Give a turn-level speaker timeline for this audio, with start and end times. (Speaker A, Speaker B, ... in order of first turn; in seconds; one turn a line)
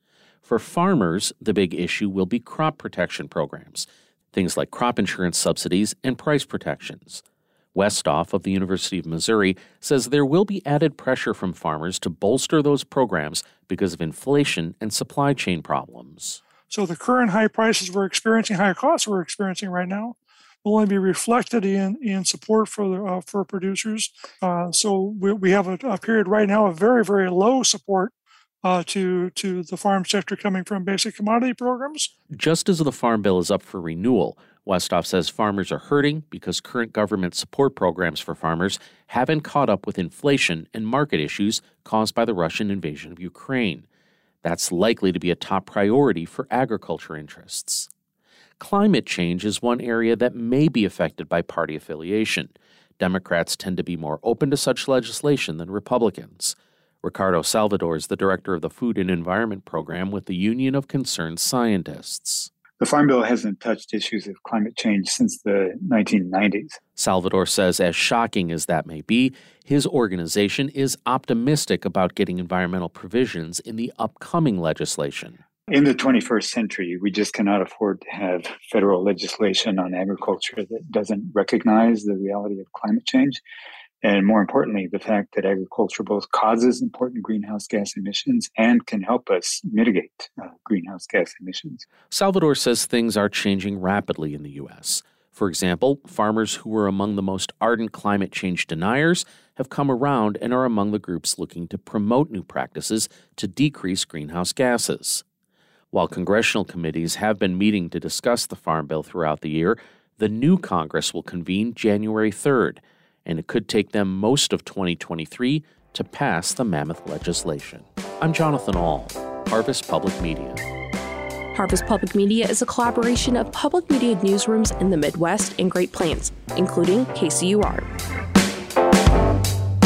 Speaker A: 0.4-7.2
Speaker A: 7.7-16.4
Speaker B: 16.7-28.1
Speaker B: 28.6-32.1
Speaker A: 32.3-43.9
Speaker A: 44.4-47.9
Speaker A: 48.6-62.5
Speaker C: 62.8-66.7
Speaker A: 67.0-75.4
Speaker C: 75.7-83.4
Speaker C: 84.0-91.8
Speaker A: 92.1-105.2
Speaker A: 105.9-120.6
Speaker D: 121.5-127.8